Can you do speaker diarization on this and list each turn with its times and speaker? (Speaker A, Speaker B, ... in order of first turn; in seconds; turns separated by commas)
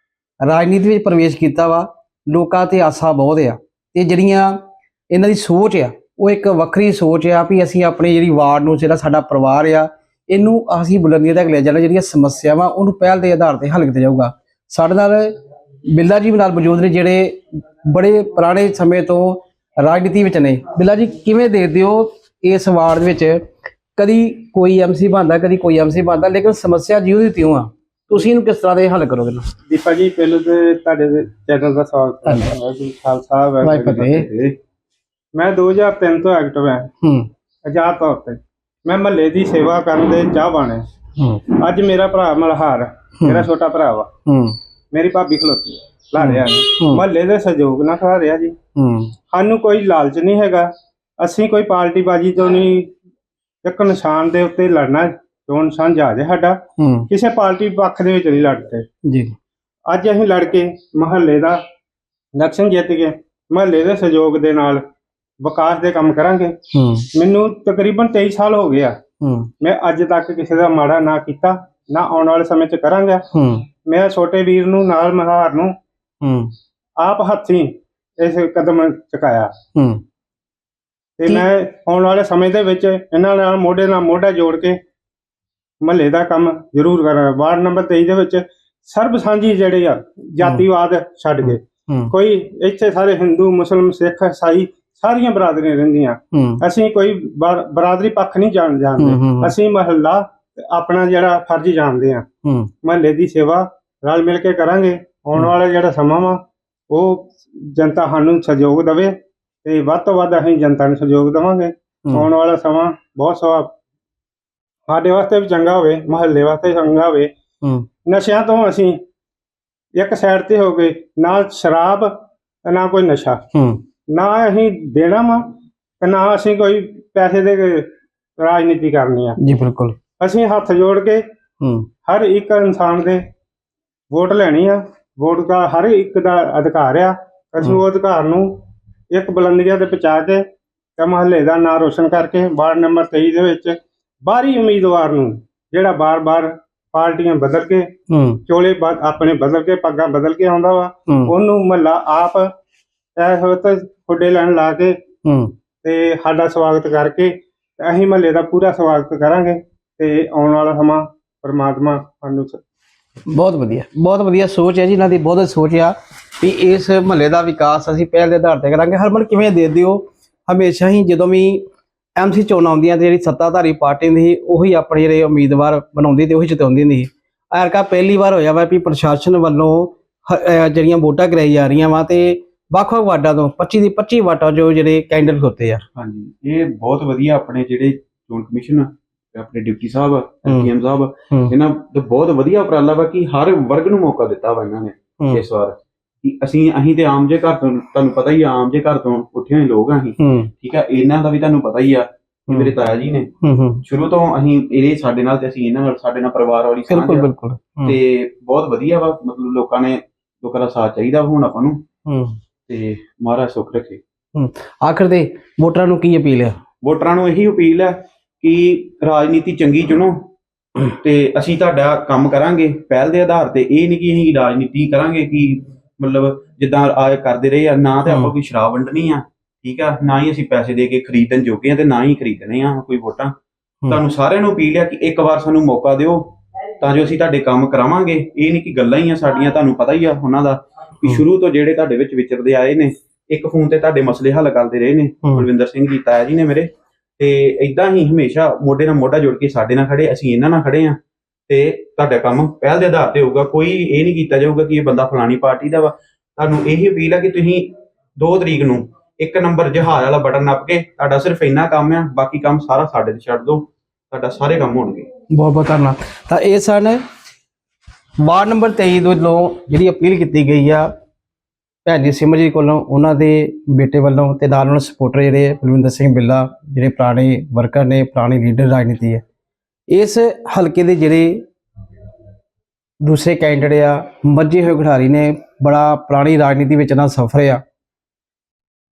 Speaker A: 0.4-15.3, Speaker A: 15.9-23.4, Speaker A: 24.0-29.5, Speaker B: 29.7-34.3, Speaker A: 33.6-34.3, Speaker B: 35.4-36.9, Speaker A: 37.0-37.3, Speaker B: 37.7-40.8, Speaker A: 41.2-41.5, Speaker B: 41.6-44.1, Speaker A: 43.2-43.5, Speaker A: 44.3-44.6, Speaker B: 44.9-48.5, Speaker A: 46.2-47.0, Speaker A: 48.8-49.1, Speaker B: 49.3-50.7, Speaker B: 51.2-52.9, Speaker B: 53.6-58.9, Speaker A: 56.8-57.1, Speaker A: 59.1-59.3, Speaker B: 59.9-61.6, Speaker B: 62.4-64.8, Speaker B: 65.4-66.5, Speaker A: 66.7-67.1, Speaker B: 67.1-69.0, Speaker A: 69.2-69.5, Speaker B: 69.6-73.2, Speaker A: 73.3-73.7, Speaker B: 73.9-75.7, Speaker A: 76.2-76.5, Speaker B: 77.0-79.5, Speaker A: 79.8-80.0, Speaker B: 81.2-84.8, Speaker B: 85.8-102.2, Speaker A: 91.4-92.1, Speaker A: 96.3-96.6, Speaker A: 99.0-99.5, Speaker A: 102.5-102.7, Speaker B: 102.8-106.4, Speaker B: 106.9-109.1, Speaker B: 109.7-113.7, Speaker B: 114.9-117.3, Speaker B: 118.1-119.0, Speaker B: 120.0-122.1, Speaker B: 122.7-123.4, Speaker A: 123.5-123.8, Speaker B: 124.1-125.4, Speaker B: 126.0-127.9, Speaker B: 128.4-129.4, Speaker A: 129.4-130.0, Speaker B: 130.2-131.2, Speaker A: 131.6-131.9, Speaker B: 132.1-133.2, Speaker B: 134.1-138.5, Speaker B: 139.1-140.4, Speaker B: 141.0-147.9, Speaker A: 148.1-148.4, Speaker B: 148.5-152.5, Speaker A: 151.1-151.3, Speaker B: 153.2-154.9, Speaker A: 155.2-155.5, Speaker B: 155.8-162.6, Speaker A: 163.3-171.7, Speaker A: 172.2-185.8, Speaker C: 185.9-203.3, Speaker A: 200.2-200.5, Speaker A: 202.5-202.8, Speaker A: 203.4-203.8, Speaker C: 203.8-207.3, Speaker A: 206.9-208.0, Speaker C: 207.9-211.8, Speaker A: 212.1-212.4, Speaker C: 212.7-214.0, Speaker A: 214.3-216.6, Speaker C: 216.8-220.3, Speaker C: 220.9-233.3, Speaker A: 228.1-228.3, Speaker C: 233.9-251.0, Speaker C: 251.5-265.1, Speaker A: 265.3-267.0, Speaker A: 268.2-270.9, Speaker A: 271.9-279.2, Speaker A: 279.9-281.4, Speaker A: 283.0-287.6